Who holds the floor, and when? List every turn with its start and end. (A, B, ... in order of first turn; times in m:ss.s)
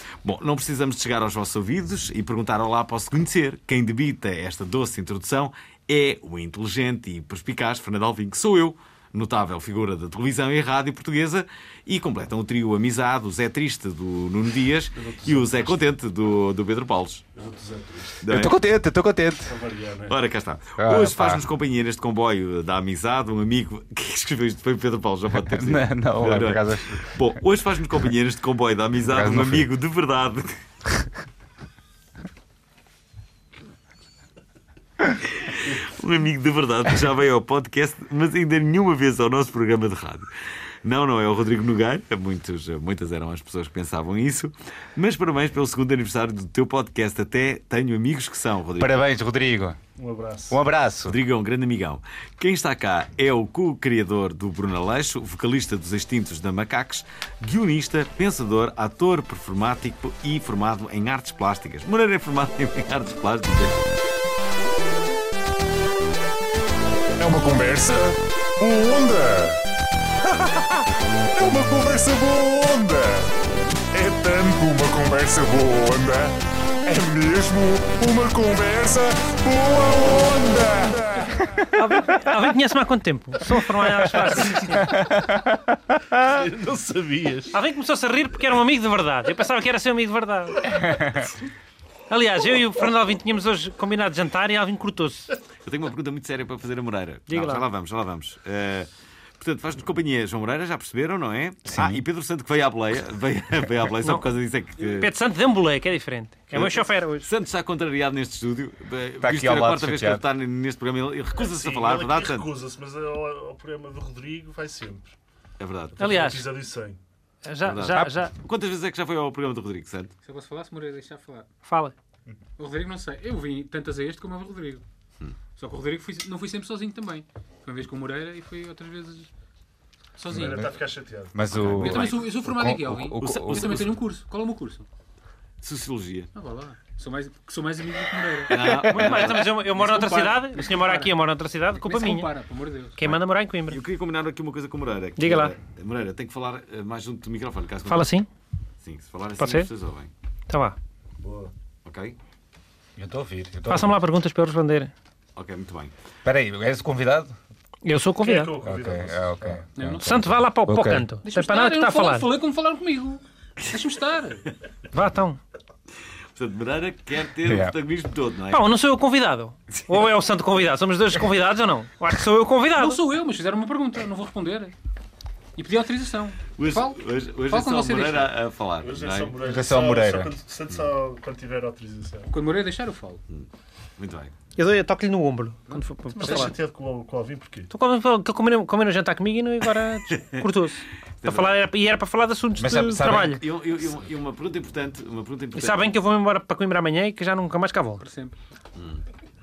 0:00.2-0:17.2 A
0:15.0-0:15.8 B
0:17.4-0:18.2 B
0:18.2-0:18.6 A
0:18.2-0:19.6 C
0:19.5-0:20.2 B
0:20.1-0:30.5 A
0:20.8-0:21.5 C
0:25.5-0:27.2 C
0:29.1-0:29.7 C
0:35.3-0:40.3 A
0:40.8-0:48.9 A
0:48.8-0:49.8 C
0:50.0-0:50.6 B
0:50.5-0:51.2 C
0:51.1-1:03.8 A
1:07.2-1:09.6 D
1:10.2-1:13.3 D
1:13.9-1:16.4 D
1:16.9-1:21.4 D
1:21.8-1:25.0 E
1:24.2-1:25.2 B
1:24.8-1:25.5 C
1:26.1-1:27.6 B
1:27.5-1:31.0 E
1:30.7-1:31.3 C
1:32.1-1:35.3 E
1:35.6-1:38.9 A
1:37.3-1:37.6 E
1:39.4-1:45.1 A
1:41.7-1:42.0 C
1:44.8-1:47.3 E
1:46.5-1:52.5 A
1:49.2-1:50.2 C
1:51.4-1:55.1 B
1:55.6-1:56.0 A
1:56.0-1:57.0 B
1:56.0-1:56.4 E
1:57.4-1:58.3 E
1:57.7-2:00.1 A
2:00.2-2:01.5 F
2:01.6-2:01.9 E
2:02.6-2:04.8 F
2:05.6-2:09.3 F
2:10.2-2:10.6 F
2:10.3-2:12.2 B
2:10.3-2:10.8 C
2:11.3-2:13.9 C
2:11.7-2:14.9 F
2:13.2-2:13.8 A
2:15.6-2:16.3 A
2:16.3-2:18.6 F
2:18.5-2:19.5 A
2:18.8-2:22.3 E
2:19.1-2:21.2 F
2:21.8-2:23.0 F
2:23.0-2:23.8 E
2:23.7-2:28.2 A
2:25.2-2:25.5 E
2:27.9-2:28.3 E
2:28.8-2:30.1 A
2:29.4-2:29.7 E
2:30.5-2:30.8 E
2:31.2-2:31.5 B
2:31.8-2:32.2 A
2:33.0-2:34.0 C
2:33.7-2:34.9 E
2:35.4-2:35.9 A
2:36.2-2:37.4 C
2:37.8-2:38.5 E
2:38.2-2:39.6 B
2:38.6-2:41.1 C
2:39.8-2:40.2 F
2:40.0-2:42.3 E
2:41.2-2:44.5 F
2:44.9-2:45.4 E
2:46.4-2:48.7 A
2:47.4-2:47.8 C
2:48.5-2:53.0 E
2:52.8-2:54.7 F
2:55.6-2:58.3 F
2:56.6-2:59.3 A
2:58.8-3:02.3 B
2:59.4-3:00.3 C
3:02.3-3:03.2 F
3:04.0-3:04.3 A
3:04.6-3:06.5 E
3:06.1-3:07.7 B
3:07.7-3:13.4 E
3:11.2-3:11.6 A
3:12.6-3:13.4 C
3:13.0-3:15.9 A
3:15.6-3:18.1 E
3:18.0-3:18.4 F